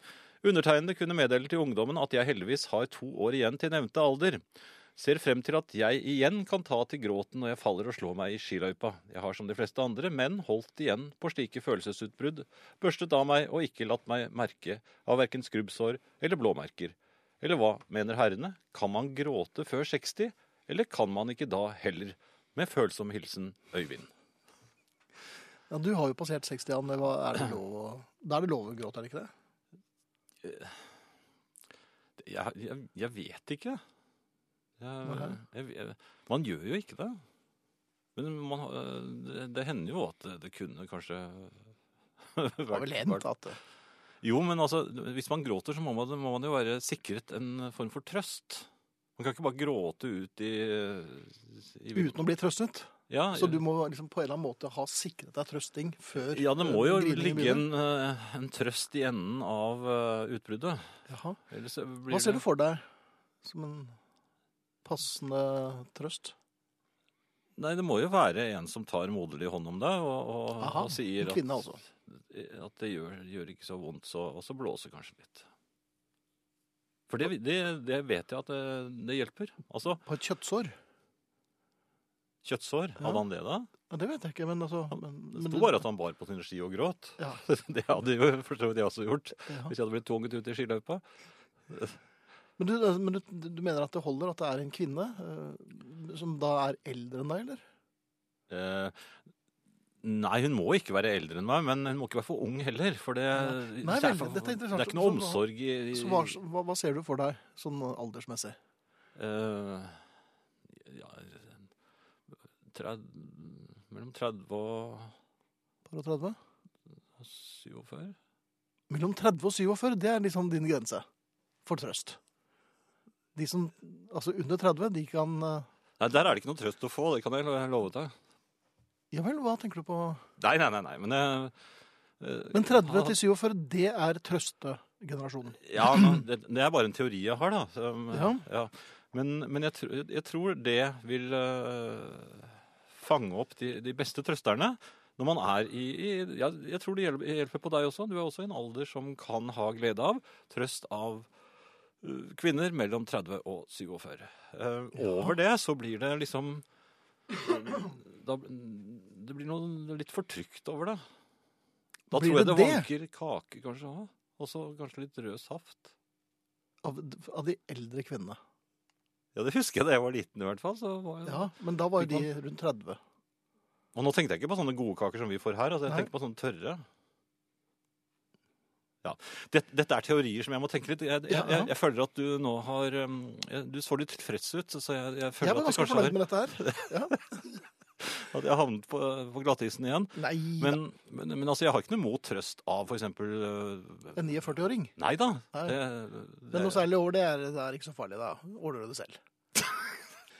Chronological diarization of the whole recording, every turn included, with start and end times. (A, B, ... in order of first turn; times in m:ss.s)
0:00.4-0:04.4 A
0:05.0-0:24.1 A
0:25.7-0:29.3 B
0:30.4-0:30.8 A
0:32.2-0:33.8 A
0:34.8-0:37.2 A
0:35.0-0:35.3 B
0:38.1-0:41.6 A
0:42.2-0:43.2 A
0:42.7-0:43.6 B
0:44.2-0:52.2 A
0:51.9-0:57.6 B
0:53.1-0:53.6 A
0:56.2-1:00.8 A
1:01.1-1:01.4 B
1:01.5-1:02.4 A
1:02.1-1:02.8 B
1:03.4-1:04.0 B
1:04.8-1:06.3 B
1:07.6-1:15.5 A
1:10.6-1:11.8 B
1:17.1-1:20.0 A
1:20.0-1:20.7 B
1:22.4-1:23.7 A
1:23.9-1:25.8 B
1:25.3-1:31.0 A
1:29.5-1:29.7 B
1:31.7-1:32.0 A
1:32.6-1:37.6 B
1:38.5-1:38.9 A
1:40.0-1:46.4 A
1:43.3-1:48.6 B
1:49.2-1:50.0 A
1:50.7-1:51.6 A
1:52.6-1:55.1 A
1:55.9-1:56.4 B
1:57.2-1:58.2 A
1:58.9-2:01.0 B
2:01.6-2:02.2 B
2:03.3-2:05.7 B
2:06.0-2:08.1 A
2:09.1-2:10.2 B
2:10.4-2:11.5 A
2:12.2-2:13.2 A
2:12.5-2:16.2 B
2:15.6-2:31.3 A
2:18.1-2:18.4 B
2:32.0-2:36.6 A
2:35.0-2:35.3 B
2:37.3-2:41.0 A
2:42.1-2:42.9 B
2:42.1-2:45.9 A
2:46.8-2:48.4 B
2:49.3-2:52.3 A
2:51.2-2:53.0 B
2:53.9-2:56.8 A
2:59.0-3:07.4 A
3:01.3-3:01.7 B
3:05.4-3:07.2 B
3:08.0-3:14.2 A
3:10.2-3:10.8 B
3:14.1-3:14.9 B
3:15.0-3:16.8 A
3:15.5-3:15.8 B
3:16.5-3:19.2 B